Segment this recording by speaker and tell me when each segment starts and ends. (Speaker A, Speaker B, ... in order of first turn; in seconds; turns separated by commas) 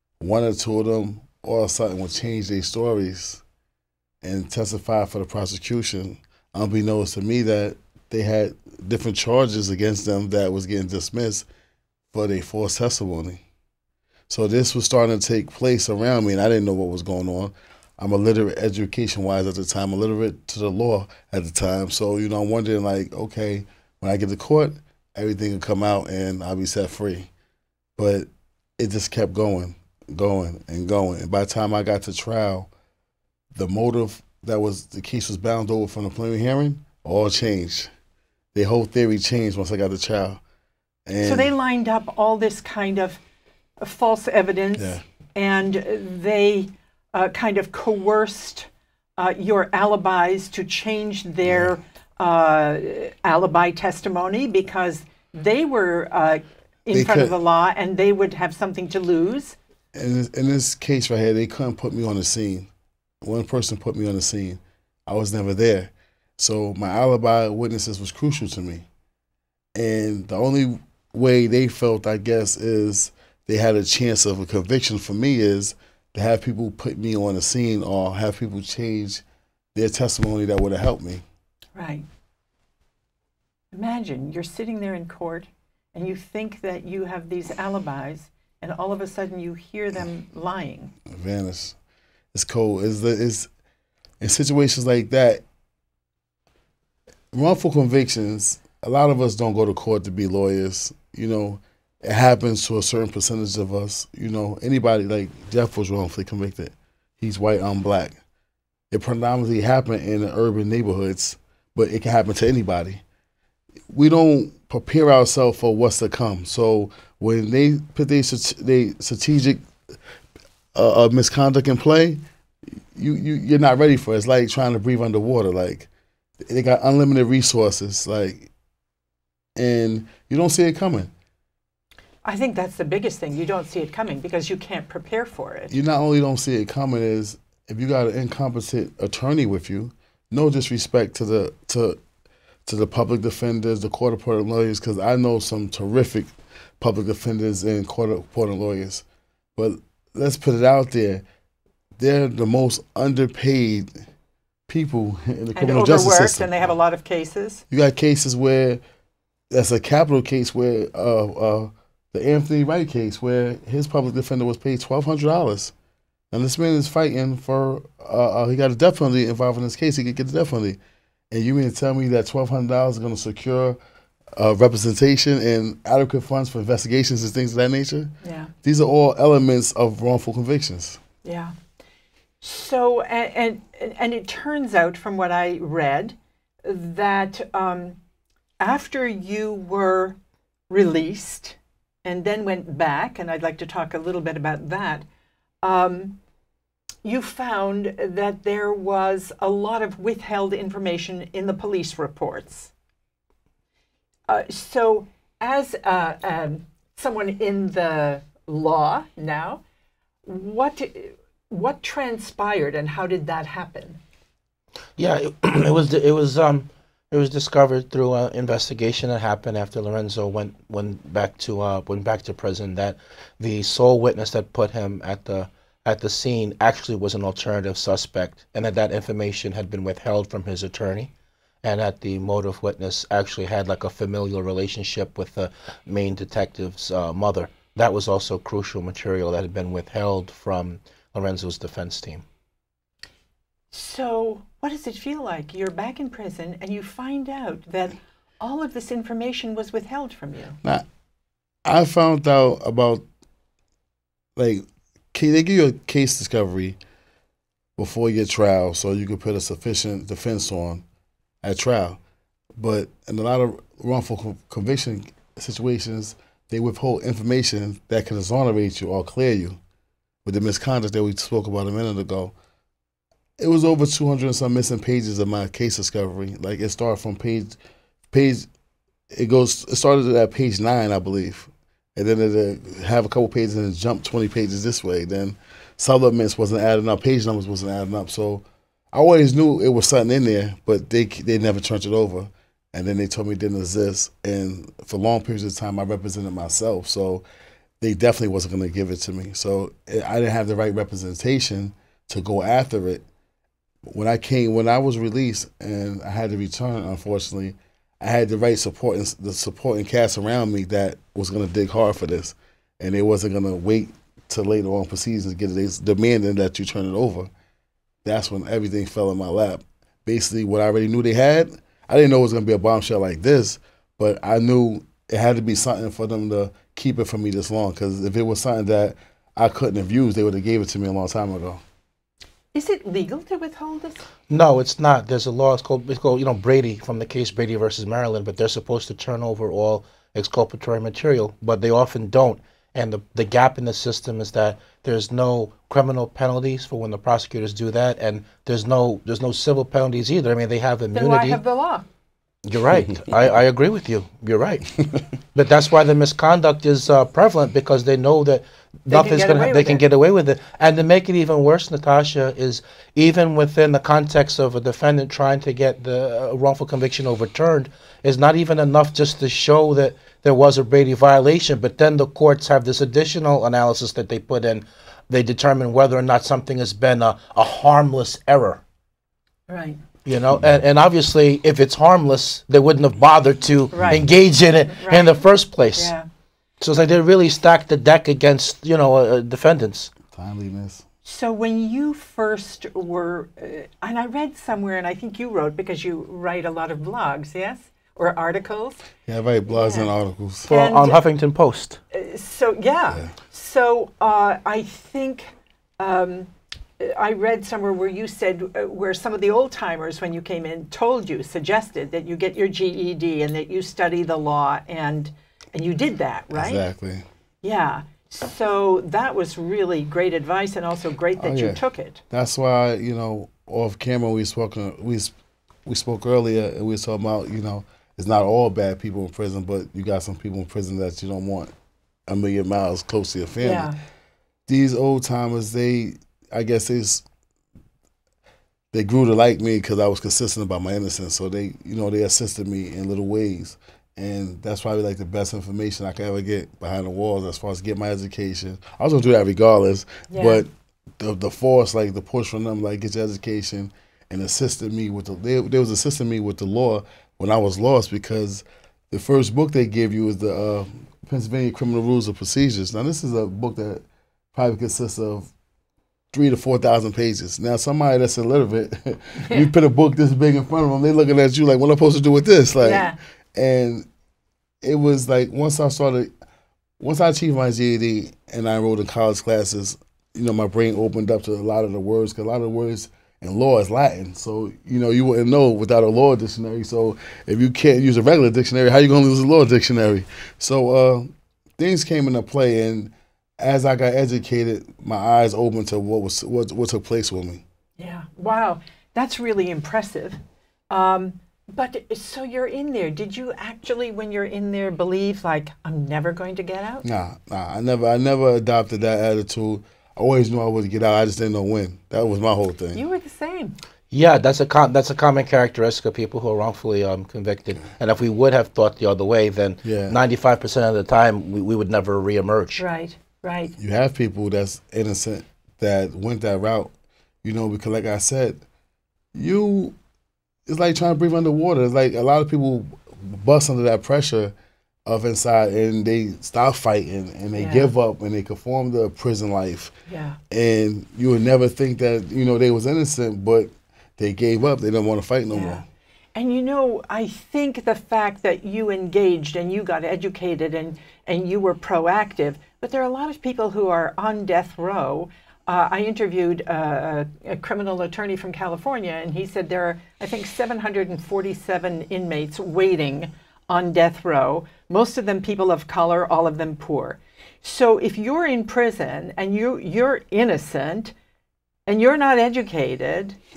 Speaker A: 0.2-3.4, Speaker A: 4.2-11.4, Speaker A: 12.1-13.4, Speaker A: 14.3-27.3, Speaker A: 28.0-32.7, Speaker A: 33.5-37.9, Speaker A: 38.5-40.4, Speaker A: 41.0-41.5, Speaker B: 41.2-43.2, Speaker B: 43.8-59.6, Speaker A: 51.5-51.7, Speaker A: 56.9-57.4, Speaker A: 59.9-62.7, Speaker A: 63.2-68.8, Speaker A: 69.7-79.2, Speaker A: 79.7-81.2, Speaker B: 81.8-82.0, Speaker B: 83.7-90.9, Speaker A: 91.0-91.8, Speaker A: 92.3-93.5, Speaker A: 94.2-95.4, Speaker A: 97.3-108.2, Speaker A: 108.9-113.0, Speaker A: 113.9-119.6, Speaker A: 120.7-122.2, Speaker A: 122.9-125.9, Speaker A: 126.4-128.5, Speaker A: 129.6-131.1, Speaker B: 132.2-135.7, Speaker A: 135.7-142.0, Speaker A: 142.7-149.0, Speaker A: 149.6-151.2, Speaker A: 152.0-153.9, Speaker A: 154.7-156.5, Speaker B: 155.5-157.6, Speaker A: 157.7-158.8, Speaker A: 159.5-165.7, Speaker A: 166.3-170.8, Speaker A: 171.3-173.8, Speaker A: 174.3-178.1, Speaker B: 178.2-178.5, Speaker A: 178.6-181.0, Speaker B: 181.2-181.5, Speaker B: 182.4-188.0, Speaker B: 188.6-190.2, Speaker B: 190.7-195.0, Speaker B: 195.6-196.2, Speaker B: 197.0-202.7, Speaker B: 204.3-209.6, Speaker B: 210.2-214.0, Speaker C: 215.0-231.1, Speaker C: 231.6-242.2, Speaker B: 243.7-250.6, Speaker A: 251.7-253.0, Speaker A: 254.3-256.8, Speaker A: 257.8-260.8, Speaker A: 261.4-262.0, Speaker A: 262.6-269.6, Speaker A: 270.2-272.3, Speaker A: 273.4-277.6, Speaker A: 278.1-278.5, Speaker A: 279.1-297.2, Speaker A: 297.8-303.0, Speaker A: 303.9-317.3, Speaker A: 318.0-331.6, Speaker B: 332.5-334.0, Speaker C: 334.3-351.4, Speaker B: 350.9-351.9, Speaker C: 352.4-354.7, Speaker C: 355.3-378.6, Speaker B: 358.9-359.8, Speaker B: 379.5-379.8, Speaker C: 380.1-385.9, Speaker B: 383.7-384.0, Speaker B: 384.7-386.1, Speaker C: 386.6-389.9, Speaker A: 390.1-390.8, Speaker B: 391.0-398.8, Speaker A: 399.1-400.5, Speaker B: 399.5-399.9, Speaker B: 400.5-401.0, Speaker C: 400.5-401.8, Speaker B: 401.9-416.7, Speaker A: 416.3-417.0, Speaker B: 417.4-422.0, Speaker A: 421.2-425.1, Speaker A: 425.6-431.5, Speaker A: 432.1-433.7, Speaker B: 433.4-433.8, Speaker A: 434.5-437.0, Speaker A: 438.7-450.5, Speaker B: 450.1-450.4, Speaker A: 451.0-465.3, Speaker A: 466.1-473.9, Speaker B: 469.2-469.5, Speaker B: 472.6-473.0, Speaker A: 474.6-476.1, Speaker A: 476.8-497.4, Speaker B: 497.8-506.8, Speaker A: 506.8-512.8, Speaker B: 512.7-513.5, Speaker C: 513.9-522.6, Speaker A: 519.6-520.0, Speaker B: 522.5-523.5, Speaker A: 523.6-526.7, Speaker A: 527.2-528.4, Speaker A: 529.1-529.8, Speaker A: 530.5-534.3, Speaker A: 534.9-539.7, Speaker B: 537.3-537.7, Speaker B: 539.9-540.2, Speaker A: 540.3-545.6, Speaker B: 545.3-545.6, Speaker B: 546.1-570.9, Speaker B: 571.7-573.2